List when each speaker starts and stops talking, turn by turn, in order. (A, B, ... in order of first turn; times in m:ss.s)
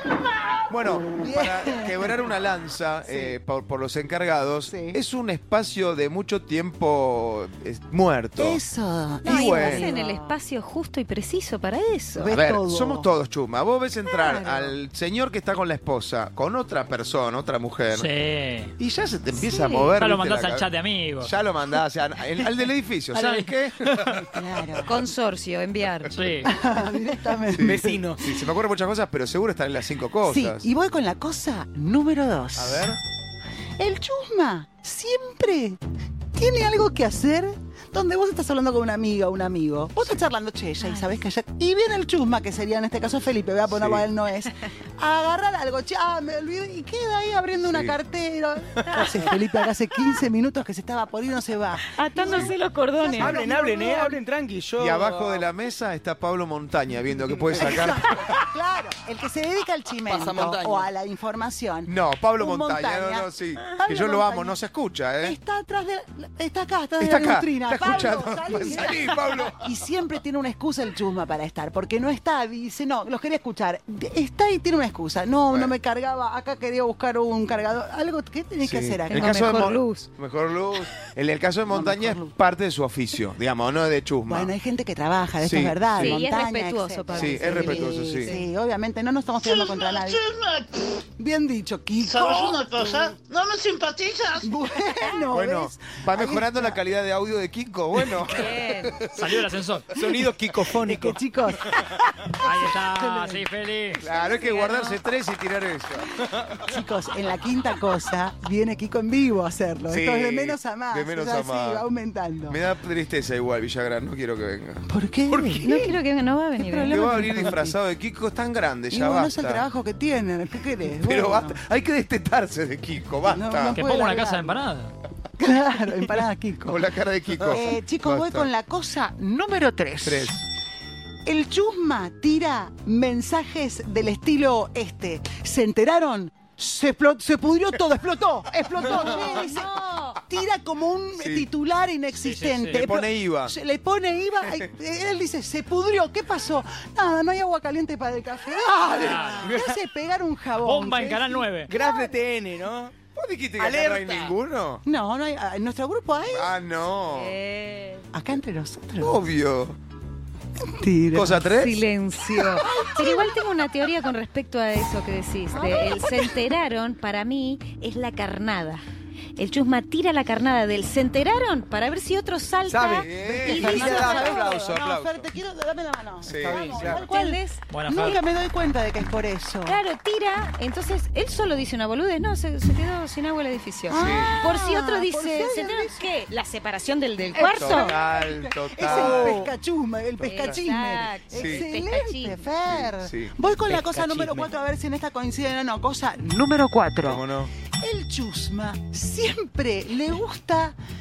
0:00.7-0:08.6 A
0:01.1-0:02.1 B
0:03.0-0:03.4 B
0:04.7-0:05.0 B
0:08.4-0:10.4 B
0:09.2-0:09.9 A
0:09.2-0:12.3 C
0:12.2-0:13.1 B
0:12.3-0:18.1 A
0:17.9-0:18.7 D
0:18.8-0:24.2 A
0:19.3-0:19.9 C
0:20.0-0:21.3 D
0:23.1-0:24.2 D
0:24.3-0:25.0 B
0:24.9-0:26.2 C
0:26.1-0:26.5 D
0:26.4-0:28.0 B
0:27.5-0:30.7 A
0:27.6-0:28.2 E
0:30.2-0:33.0 B
0:32.6-0:33.0 A
0:33.8-0:35.8 B
0:36.3-0:54.2 B
0:40.8-0:41.2 C
0:43.7-0:44.1 A
0:47.6-0:48.0 A
0:52.0-0:53.4 C
0:53.2-0:55.5 E
0:54.8-0:58.3 A
0:57.6-1:04.6 B
1:00.1-1:00.9 E
1:01.8-1:05.4 A
1:05.2-1:19.5 B
1:07.0-1:09.6 A
1:18.6-1:24.5 A
1:19.1-1:20.1 C
1:21.7-1:22.3 B
1:24.3-1:30.3 B
1:25.4-1:26.2 A
1:26.0-1:28.5 C
1:27.1-1:28.3 A
1:29.4-1:30.9 F
1:31.2-1:33.2 B
1:32.0-1:34.5 F
1:34.4-1:36.8 B
1:35.0-1:35.2 C
1:35.3-1:39.5 A
1:38.3-1:39.0 C
1:39.1-1:39.9 D
1:39.9-1:41.2 E
1:40.8-1:43.5 B
1:42.4-1:44.0 D
1:44.0-1:46.1 A
1:44.2-1:45.0 C
1:46.5-1:52.6 B
1:49.9-1:51.9 A
1:52.5-1:54.8 A
1:54.9-1:56.0 B
1:55.6-1:57.5 C
1:56.6-1:57.8 B
1:56.8-1:59.7 A
1:58.9-2:01.6 B
2:01.0-2:03.8 A
2:03.3-2:04.6 B
2:03.8-2:04.9 D
2:05.4-2:06.8 B
2:06.7-2:08.5 A
2:07.5-2:10.5 B
2:10.0-2:10.4 A
2:11.2-2:32.2 B
2:18.8-2:20.2 C
2:21.2-2:21.5 A
2:22.1-2:22.8 D
2:22.7-2:23.5 A
2:28.9-2:29.5 D
2:29.2-2:29.8 E
2:30.6-2:31.7 D
2:31.7-2:32.9 E
2:33.2-2:34.8 A
2:33.6-2:34.3 E
2:34.8-2:36.5 B
2:36.3-2:37.4 A
2:37.1-2:38.1 C
2:38.1-2:39.2 B
2:39.0-2:39.8 A
2:40.6-2:41.5 B
2:41.1-2:41.8 A
2:41.6-2:48.8 C
2:42.4-2:43.3 B
2:45.5-2:46.4 B
2:49.4-2:54.4 C
2:52.7-2:54.3 E
2:53.0-2:55.3 A
2:53.4-2:59.8 B
2:56.2-2:56.9 A
2:56.3-2:57.0 E
2:56.9-2:57.6 C
2:57.7-2:58.2 D
2:59.7-3:08.0 C
3:03.9-3:06.1 B
3:03.9-3:04.3 A
3:07.3-3:17.2 B
3:07.4-3:09.5 A
3:08.8-3:09.3 C
3:10.2-3:10.6 A
3:10.2-3:12.4 C
3:11.4-3:11.7 A
3:12.6-3:13.3 A
3:13.7-3:14.5 E
3:17.0-3:17.5 A
3:17.8-3:20.8 B